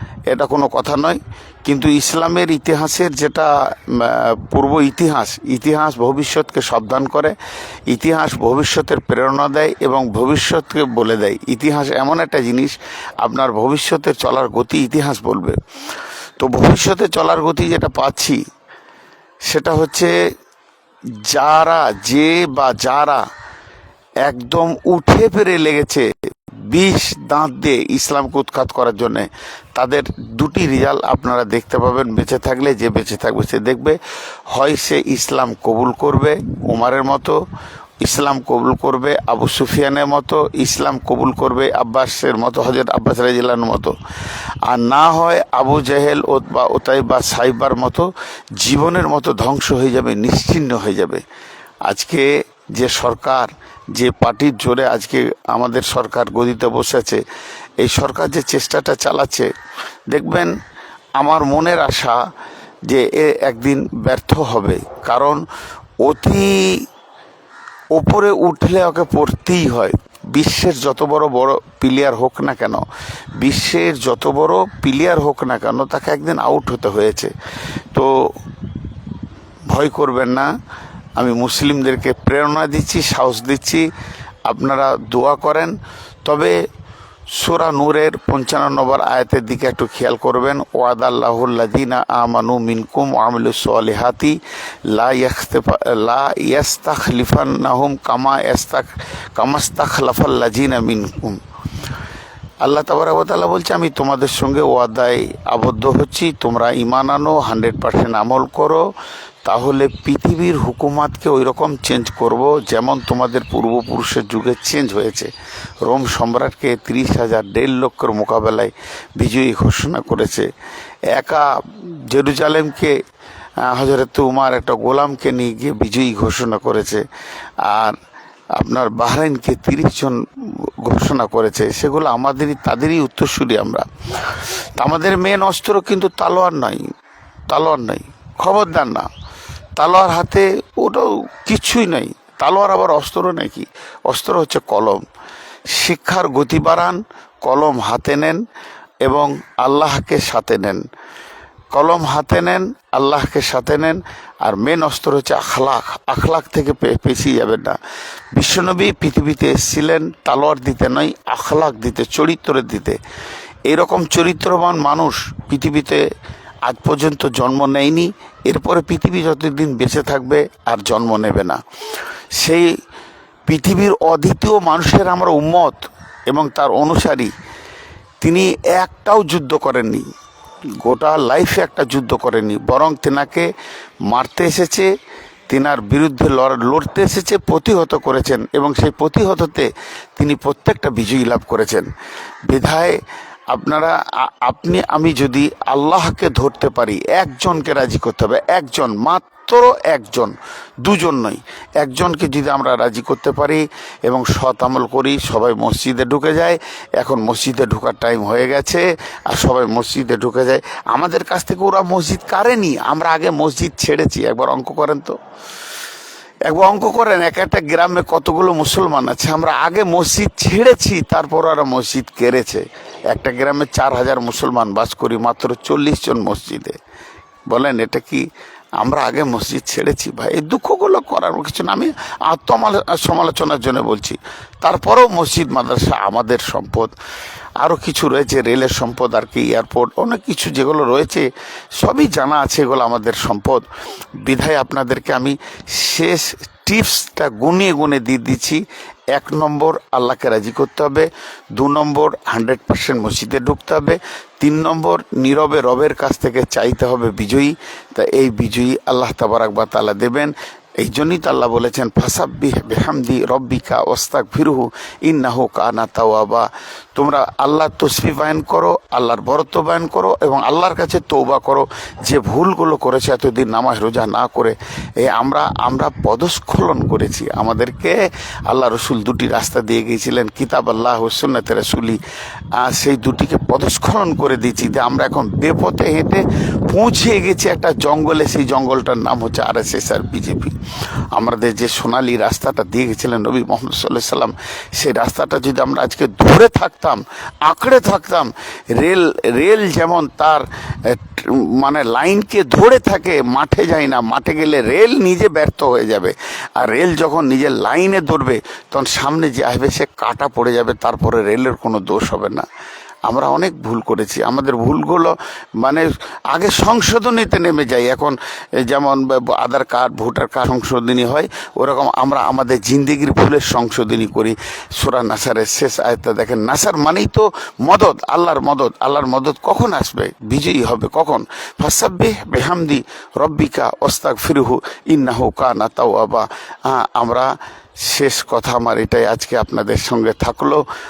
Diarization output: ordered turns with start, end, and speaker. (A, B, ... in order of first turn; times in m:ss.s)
0:00.3-0:07.4 A
0:07.9-0:15.6 A
0:16.4-0:18.4 A
0:19.5-0:20.1 A
0:21.2-0:23.2 A
0:24.2-0:26.1 A
0:26.7-0:34.0 A
0:34.5-0:37.4 A
0:38.0-0:43.9 A
0:44.7-0:51.2 A
0:51.9-0:57.2 A
0:57.8-0:59.5 A
1:00.1-1:00.5 A
1:01.2-1:02.2 A
1:02.9-1:05.4 A
1:06.0-1:06.9 A
1:07.9-1:12.8 A
1:13.4-1:17.3 A
1:19.7-1:20.5 A
1:21.2-1:23.9 A
1:24.5-1:26.6 A
1:27.4-1:34.4 A
1:34.9-1:41.4 A
1:42.6-1:48.9 A
1:49.4-1:55.3 A
1:55.9-2:00.5 A
2:01.1-2:03.0 A
2:03.6-2:07.0 A
2:07.6-2:08.0 A
2:08.6-2:10.2 A
2:10.8-2:16.9 A
2:17.5-2:19.1 A
2:19.8-2:25.0 A
2:25.7-2:28.4 A
2:29.0-2:30.8 A
2:31.7-2:37.8 A
2:38.4-2:43.0 A
2:43.7-2:46.0 A
2:46.7-2:51.6 A
2:52.4-2:52.7 A
2:53.5-2:57.3 A
2:58.2-3:00.1 A
3:00.8-3:03.5 A
3:04.1-3:04.9 A
3:05.5-3:11.9 A
3:12.5-3:13.0 A
3:13.5-3:35.2 A
3:36.5-3:46.8 A
3:47.5-3:48.3 A
3:48.8-3:56.9 A
3:57.6-4:01.3 A
4:01.8-4:03.7 A
4:04.2-4:08.6 A
4:09.1-4:38.0 A
4:38.5-4:42.0 A
4:42.6-4:50.6 A
4:51.2-5:12.5 A
5:13.1-5:40.6 A